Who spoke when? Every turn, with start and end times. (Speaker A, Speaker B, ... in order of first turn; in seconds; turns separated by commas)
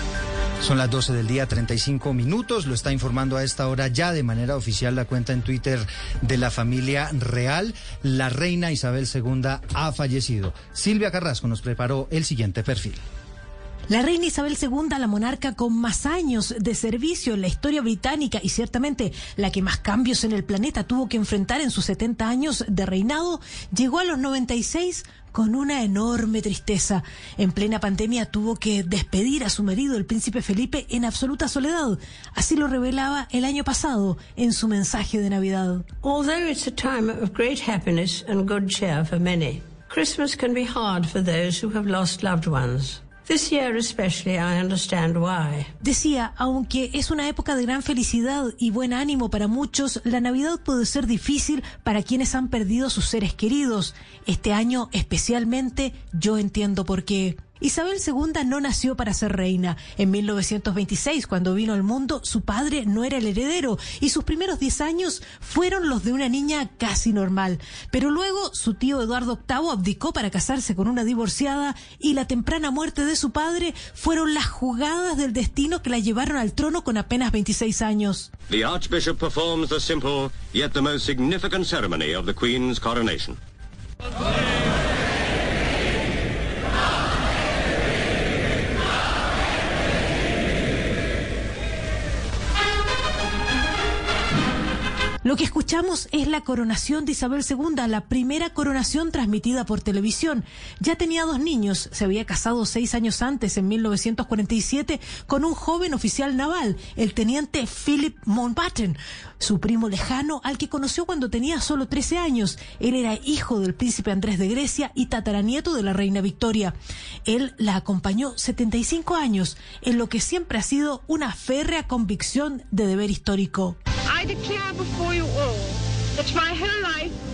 Speaker A: 0.6-13.0, Speaker B: 13.9-35.9, Speaker C: 36.0-45.7, Speaker B: 45.8-78.3, Speaker D: 78.5-83.4, Speaker B: 95.2-123.8, Speaker E: 124.1-127.1